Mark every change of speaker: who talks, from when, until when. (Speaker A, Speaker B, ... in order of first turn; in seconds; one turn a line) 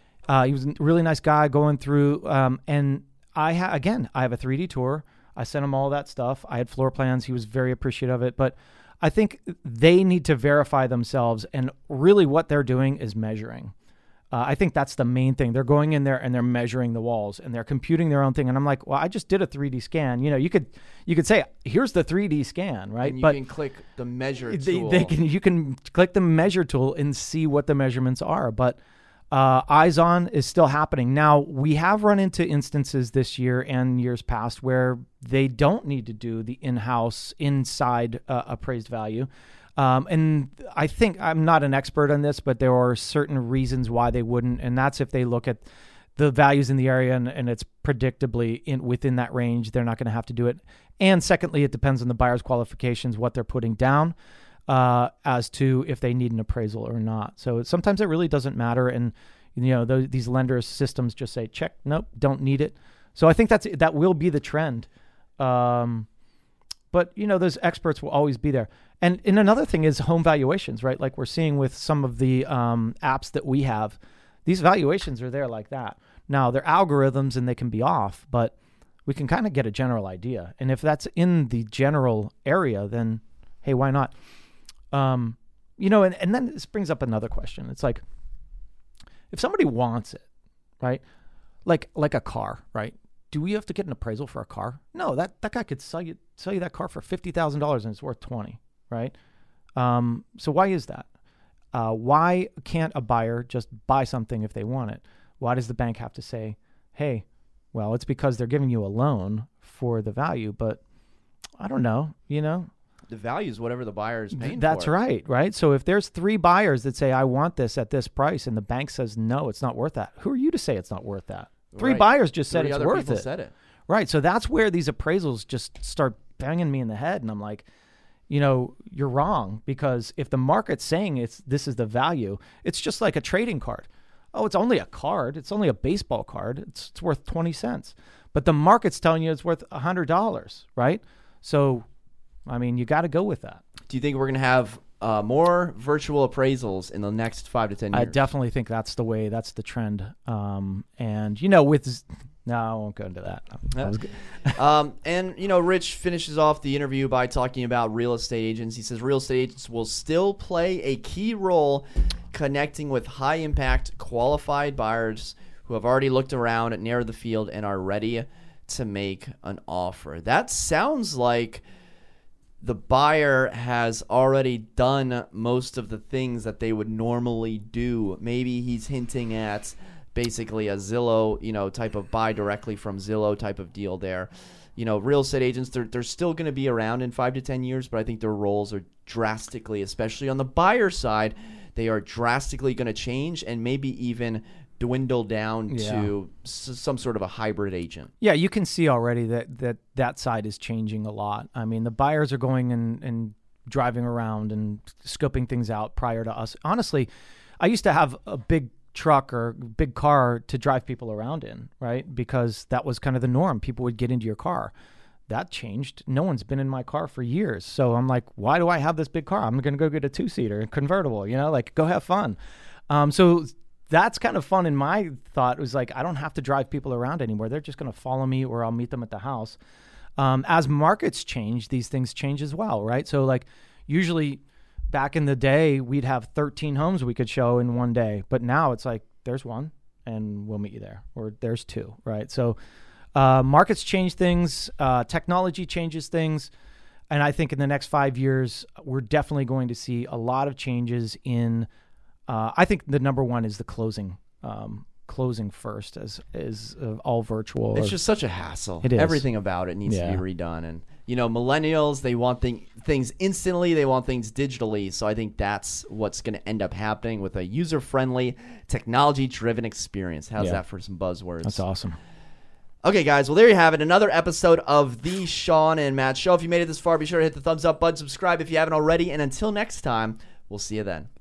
Speaker A: 0.3-13.7
Speaker A: 14.3-23.4
Speaker B: 23.0-25.1
Speaker A: 24.5-28.8
Speaker A: 29.3-54.1
Speaker A: 54.7-64.9
Speaker A: 65.4-66.1
Speaker A: 66.9-84.1
Speaker A: 84.9-88.0
Speaker A: 89.3-90.2
Speaker A: 91.6-99.1
Speaker A: 99.8-101.1
Speaker A: 101.7-110.8
Speaker A: 111.6-112.7
Speaker B: 113.1-114.9
Speaker A: 114.3-123.2
Speaker B: 121.7-123.5
Speaker A: 123.9-127.7
Speaker A: 128.3-141.8
Speaker A: 142.4-143.6
Speaker B: 143.9-148.2
Speaker A: 147.9-154.6
Speaker B: 153.7-171.6
Speaker B: 172.6-198.1
Speaker A: 195.7-196.1
Speaker A: 198.2-207.1
Speaker A: 207.6-214.7
Speaker A: 215.3-222.4
Speaker A: 222.9-229.6
Speaker A: 230.2-242.6
Speaker A: 243.1-246.5
Speaker A: 247.1-251.7
Speaker A: 252.3-257.9
Speaker B: 257.7-271.6
Speaker A: 258.8-259.2
Speaker A: 259.9-260.2
Speaker A: 271.4-272.0
Speaker B: 272.8-281.1